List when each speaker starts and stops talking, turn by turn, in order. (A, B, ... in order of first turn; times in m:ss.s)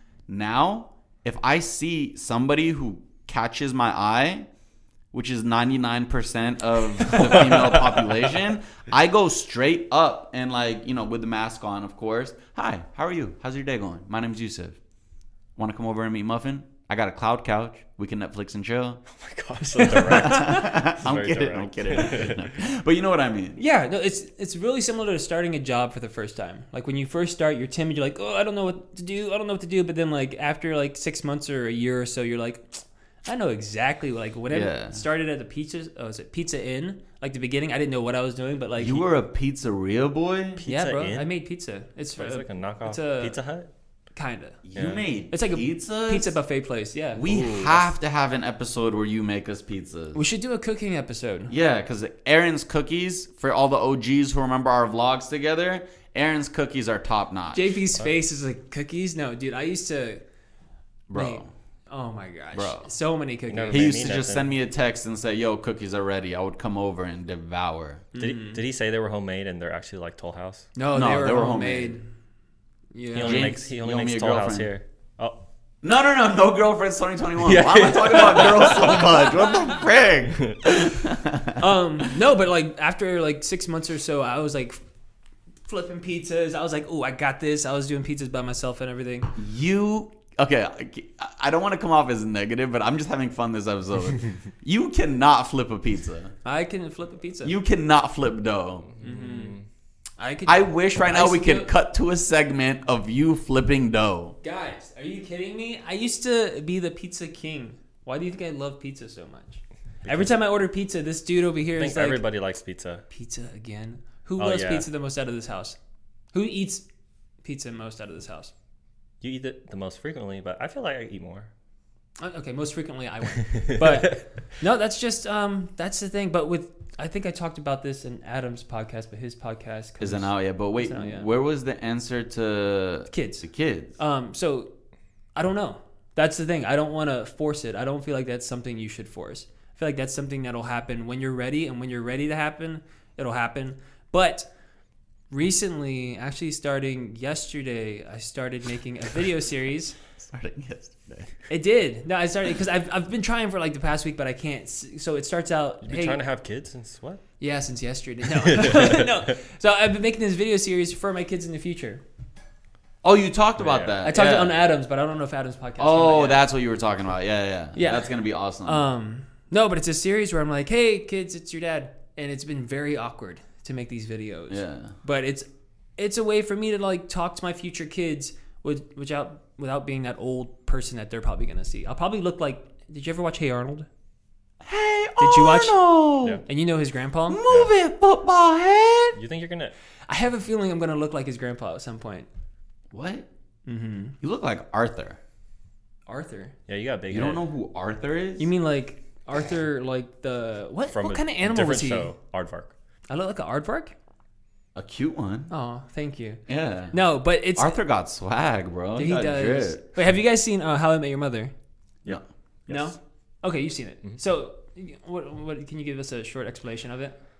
0:00.3-0:04.5 A
0:05.1-0:14.8 A
0:07.1-0:07.5 B
0:15.6-0:19.0 A
0:19.1-0:22.5 C
0:19.8-0:20.7 B
0:20.2-0:23.6 A
0:23.6-0:39.0 B
0:34.5-0:35.0 A
0:38.8-0:40.6 A
0:40.6-0:41.3 C
0:40.6-0:43.4 B
0:42.2-0:43.7 C
0:44.1-0:44.6 B
0:44.6-0:46.3 A
0:44.7-0:45.0 C
0:45.3-0:47.2 B
0:47.1-0:50.2 A
0:47.2-0:47.9 C
0:50.1-0:51.5 B
0:51.5-0:57.8 A
0:57.5-1:00.2 B
1:01.1-1:01.5 A
1:01.1-1:03.9 B
1:02.5-1:02.8 A
1:03.5-1:04.5 C
1:03.7-1:08.0 A
1:08.1-1:08.6 B
1:08.2-1:10.7 C
1:10.8-1:12.0 B
1:10.9-1:12.0 A
1:12.9-1:13.5 B
1:13.1-1:15.4 C
1:13.2-1:14.7 A
1:15.8-1:21.6 A
1:17.4-1:19.3 C
1:20.4-1:20.6 C
1:21.6-1:24.8 B
1:25.7-1:29.3 B
1:29.4-1:36.3 A
1:36.4-1:37.6 B
1:37.4-1:38.9 A
1:38.9-1:39.6 C
1:39.0-1:39.6 B
1:40.2-1:41.7 B
1:40.5-1:44.4 A
1:44.4-1:52.2 B
1:50.0-1:50.3 C
1:51.8-1:53.0 C
1:53.1-1:55.8 B
1:54.4-1:54.9 C
1:56.3-1:56.8 B
1:57.4-1:58.5 B
1:59.2-2:01.5 C
2:02.2-2:11.3 B
2:03.5-2:04.2 C
2:10.0-2:14.0 A
2:13.1-2:14.7 B
2:15.4-2:24.5 B
2:25.3-2:30.0 B
2:30.2-2:31.3 A
2:31.5-2:36.2 B
2:35.8-2:37.2 C
2:37.4-2:42.0 B
2:38.3-2:39.3 C
2:43.0-2:44.6 A
2:43.6-2:44.0 C
2:44.0-2:46.4 B
2:45.8-2:48.8 A
2:47.8-3:03.9 B
2:54.5-2:55.0 A
3:04.6-3:06.4 A
3:05.2-3:05.8 B
3:06.4-3:07.4 B
3:07.3-3:09.2 A
3:09.1-3:09.7 C
3:10.1-3:12.3 B
3:12.9-3:13.3 A
3:13.6-3:14.2 B
3:14.2-3:15.2 A
3:16.1-3:16.5 B
3:16.7-3:17.4 C
3:17.1-3:18.5 A
3:18.4-3:22.1 B
3:20.9-3:22.7 C
3:23.1-3:23.9 B
3:24.8-3:25.5 A
3:25.5-3:27.8 B
3:26.5-3:27.0 A
3:27.6-3:29.8 A
3:29.0-3:31.5 B
3:32.0-3:32.9 C
3:32.7-3:37.2 B